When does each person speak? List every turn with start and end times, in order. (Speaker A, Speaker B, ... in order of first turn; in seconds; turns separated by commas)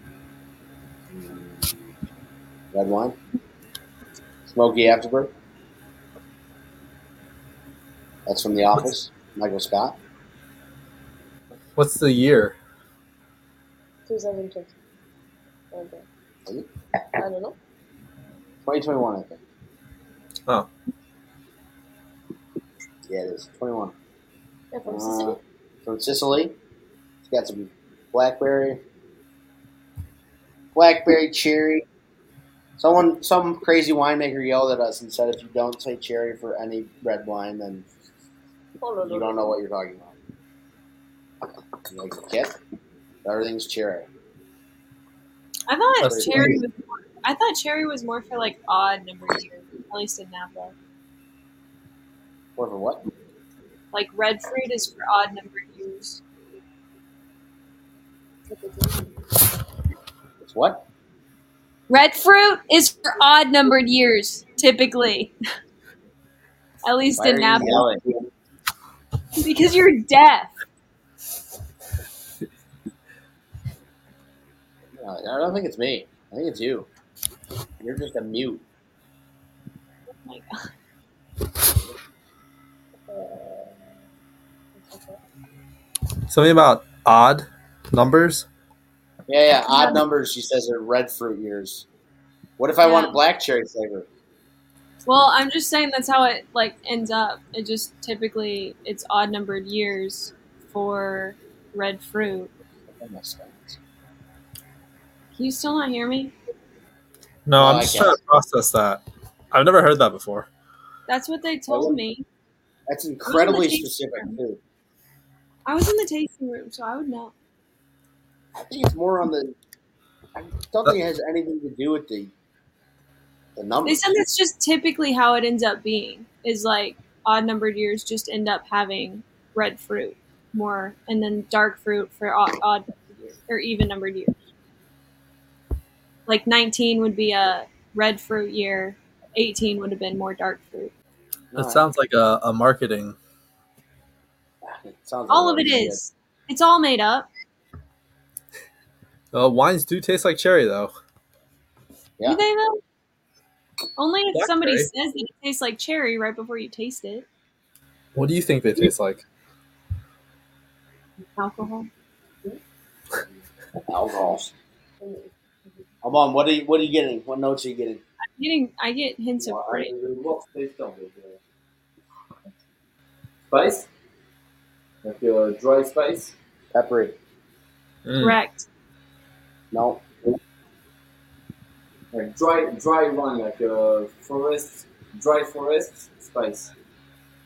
Speaker A: 1.1-1.8, Speaker A: 2.7-3.2, Speaker A: 4.5-5.3, Speaker A: 8.3-10.0, Speaker B: 11.8-12.6, Speaker C: 14.1-14.7, Speaker C: 15.7-16.1, Speaker C: 17.2-17.6, Speaker A: 18.6-19.4, Speaker A: 23.1-23.9, Speaker C: 24.7-25.4, Speaker A: 24.9-26.6, Speaker A: 27.3-28.8, Speaker A: 30.8-31.9, Speaker A: 32.8-37.9, Speaker C: 38.8-39.5, Speaker A: 39.0-40.1, Speaker A: 41.9-42.5, Speaker A: 43.2-44.1, Speaker D: 45.7-50.8, Speaker B: 46.0-46.6, Speaker A: 46.0-46.6, Speaker A: 52.6-53.0, Speaker D: 53.9-56.2, Speaker C: 58.5-59.1, Speaker A: 60.4-60.8, Speaker D: 61.9-65.3, Speaker D: 66.8-67.9, Speaker A: 67.2-68.2, Speaker D: 69.4-70.5, Speaker A: 75.0-76.9, Speaker A: 77.8-78.6, Speaker D: 80.2-80.7, Speaker C: 83.1-83.8, Speaker C: 84.8-85.2, Speaker B: 86.3-88.5, Speaker A: 89.3-91.9, Speaker A: 92.6-94.1, Speaker D: 92.8-93.2, Speaker D: 95.0-102.5, Speaker A: 103.0-103.8, Speaker D: 105.3-106.3, Speaker B: 107.5-109.0, Speaker A: 107.6-108.2, Speaker B: 109.5-110.5, Speaker D: 111.1-112.2, Speaker A: 111.7-112.0, Speaker A: 112.9-114.6, Speaker D: 113.2-114.4, Speaker D: 115.7-117.3, Speaker A: 118.5-119.6, Speaker A: 120.3-122.3, Speaker A: 123.6-124.1, Speaker D: 123.8-134.3, Speaker D: 136.3-140.9, Speaker A: 141.5-141.9, Speaker B: 141.6-143.2, Speaker A: 144.6-146.0, Speaker D: 145.3-147.3, Speaker B: 149.3-150.9, Speaker D: 152.3-152.8, Speaker D: 154.0-157.3, Speaker B: 154.3-154.9, Speaker B: 158.2-159.2, Speaker D: 161.4-161.9, Speaker A: 163.9-164.5, Speaker C: 165.0-165.3, Speaker A: 166.0-168.0, Speaker D: 168.4-169.9, Speaker E: 169.4-171.4, Speaker E: 173.5-173.9, Speaker E: 175.0-176.3, Speaker A: 176.7-177.2, Speaker B: 178.1-178.4, Speaker D: 178.2-178.7, Speaker A: 179.7-180.1, Speaker E: 182.1-186.7